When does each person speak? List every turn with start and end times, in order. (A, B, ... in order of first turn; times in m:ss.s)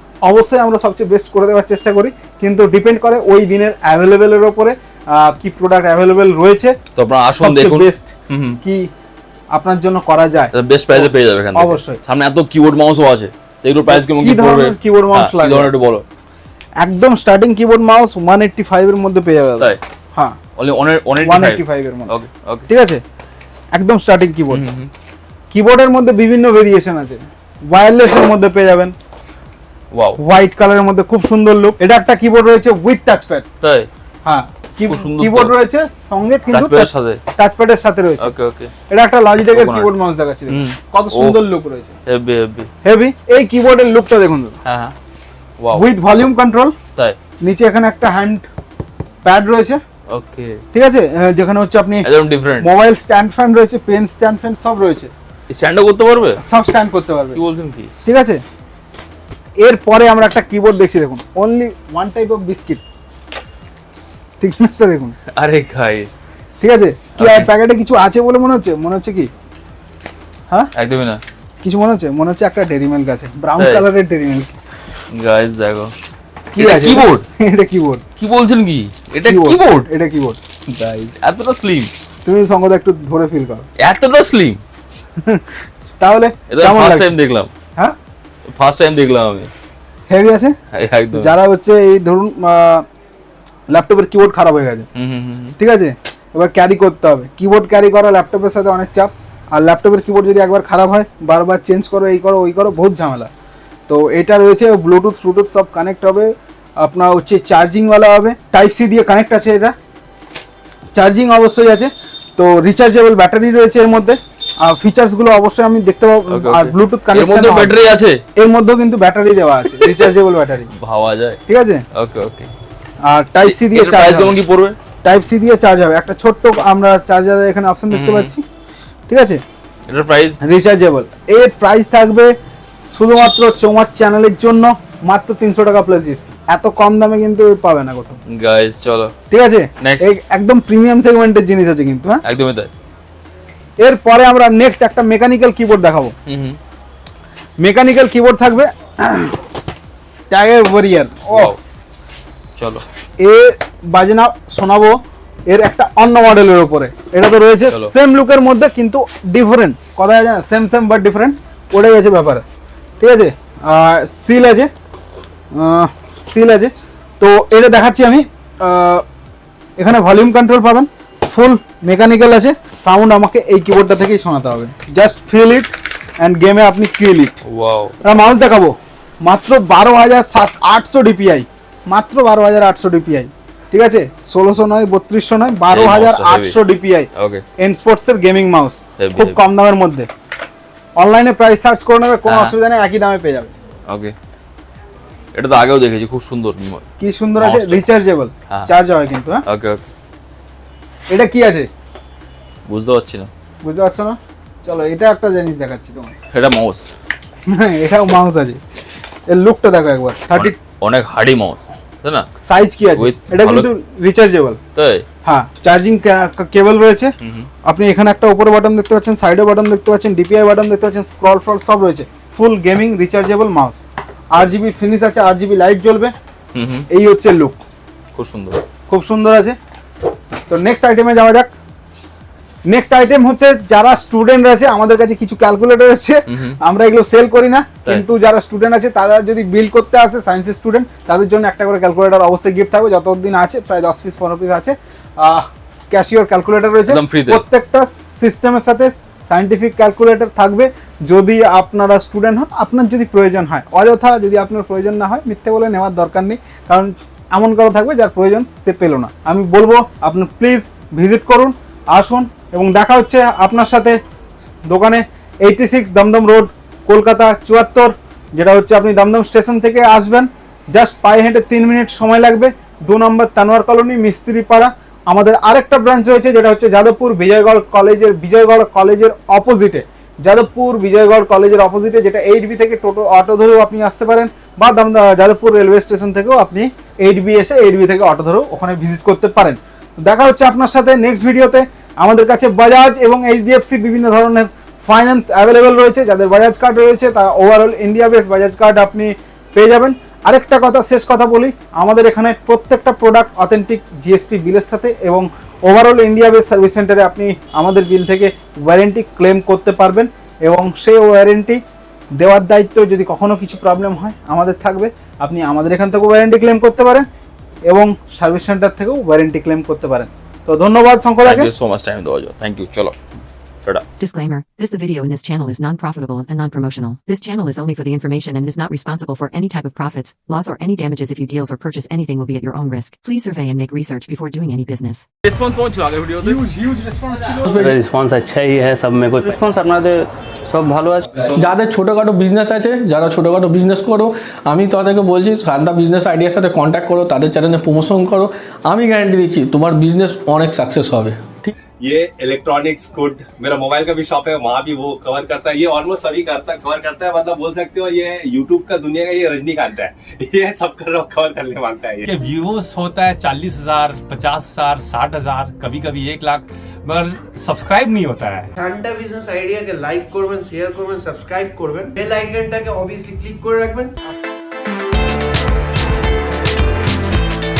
0:00.2-0:06.8 A
0:07.0-0:08.6 B
0:07.4-0:08.9 A
0:09.5-0:12.0 A
0:10.5-0:16.0 B
0:13.9-0:15.7 A
0:16.8-0:20.4 A
0:20.6-0:22.7 B
0:21.2-0:22.1 A
0:22.7-0:23.0 A
0:23.7-0:24.6 A
0:24.5-0:24.9 B
0:25.5-0:28.9 A
0:29.9-0:30.2 B
0:30.2-0:33.4 A
0:33.6-0:33.9 B
0:34.2-0:38.3 A
0:34.9-0:35.5 B
0:36.5-0:37.2 B
0:38.2-0:38.7 B
0:38.9-0:41.9 A
0:39.5-0:39.9 B
0:40.5-0:41.4 B
0:42.1-0:42.7 B
0:42.8-0:44.6 A
0:44.6-0:44.9 B
0:45.6-0:45.8 B
0:45.7-0:46.7 A
0:47.4-0:48.5 A
0:49.2-0:49.8 A
0:50.1-0:50.6 B
0:50.7-0:52.1 A
0:52.0-0:52.7 B
0:52.6-0:55.1 A
0:55.5-0:56.4 B
0:56.4-0:57.4 A
0:57.3-0:57.9 B
0:58.0-0:58.4 A
0:59.6-1:02.8 A
1:04.4-1:05.2 A
1:05.3-1:06.1 B
1:06.6-1:09.3 A
1:07.2-1:07.5 B
1:10.8-1:11.2 B
1:11.6-1:14.6 A
1:13.6-1:13.8 B
1:15.1-1:15.9 B
1:16.5-1:18.0 A
1:16.6-1:17.2 B
1:18.2-1:19.9 B
1:19.2-1:20.4 A
1:20.7-1:21.9 B
1:22.2-1:23.6 A
1:23.8-1:24.6 B
1:26.0-1:27.1 A
1:26.5-1:27.5 B
1:28.5-1:29.5 B
1:30.1-1:30.6 A
1:30.7-1:31.3 B
1:31.1-1:32.8 A
1:33.7-1:34.9 A
1:34.9-1:35.6 B
1:35.6-1:43.3 A
1:43.9-1:49.7 A
1:50.9-1:57.8 A
1:56.3-1:58.2 B
1:58.4-2:00.7 A
1:59.7-2:00.1 B
2:00.8-2:01.4 B
2:01.5-2:01.8 A
2:01.9-2:02.5 B
2:03.0-2:04.3 A
2:03.4-2:04.8 B
2:05.0-2:08.4 A
2:07.9-2:08.3 B
2:09.1-2:09.4 A
2:09.9-2:10.4 B
2:10.4-2:12.3 A
2:12.9-2:18.2 A
2:18.3-2:19.1 B
2:19.3-2:22.2 A
2:19.8-2:20.1 B
2:22.2-2:22.7 B
2:23.8-2:26.1 A
2:26.3-2:26.6 B
2:27.6-2:29.4 A
2:30.3-2:31.5 A
2:31.3-2:31.6 B
2:32.6-2:32.8 B
2:33.2-2:42.4 A
2:43.0-2:44.7 A
2:45.5-2:49.0 A
2:49.8-2:57.4 A
2:57.4-2:58.0 B
2:58.0-3:07.1 A
3:05.7-3:06.6 B
3:07.2-3:07.4 B
3:07.6-3:10.1 A
3:09.0-3:09.4 B
3:11.0-3:13.5 A
3:12.3-3:12.5 B
3:13.9-3:14.1 B
3:15.3-3:16.9 B
3:17.0-3:19.4 A
3:17.4-3:17.8 B
3:19.5-3:19.8 B
3:21.1-3:21.7 A
3:22.7-3:23.3 B
3:23.6-3:26.1 A
3:26.3-3:26.9 B
3:27.5-3:28.6 A
3:29.3-3:30.6 A
3:30.3-3:32.3 B
3:32.4-3:34.6 A
3:33.0-3:33.7 B
3:34.8-3:35.0 B
3:35.2-3:37.1 A
3:37.2-3:37.5 B
3:37.6-3:46.1 A
3:46.5-3:46.9 B
3:46.9-3:47.6 A
3:48.2-3:48.6 B
3:48.9-3:49.6 A
3:50.5-3:51.5 A
3:52.7-4:24.0 A
3:56.3-3:56.6 B
4:06.9-4:07.4 B
4:24.7-5:11.6 A
5:12.2-5:17.1 A
5:17.7-5:21.5 A
5:21.2-5:23.0 B
5:24.0-5:35.0 C
5:35.2-5:36.4 B
5:36.2-5:37.5 A
5:37.4-5:37.8 D
5:37.5-5:41.0 E
5:41.1-5:41.4 B
5:41.4-5:51.5 D
5:51.8-6:02.1 F
6:02.1-6:08.5 G
6:08.5-6:13.9 H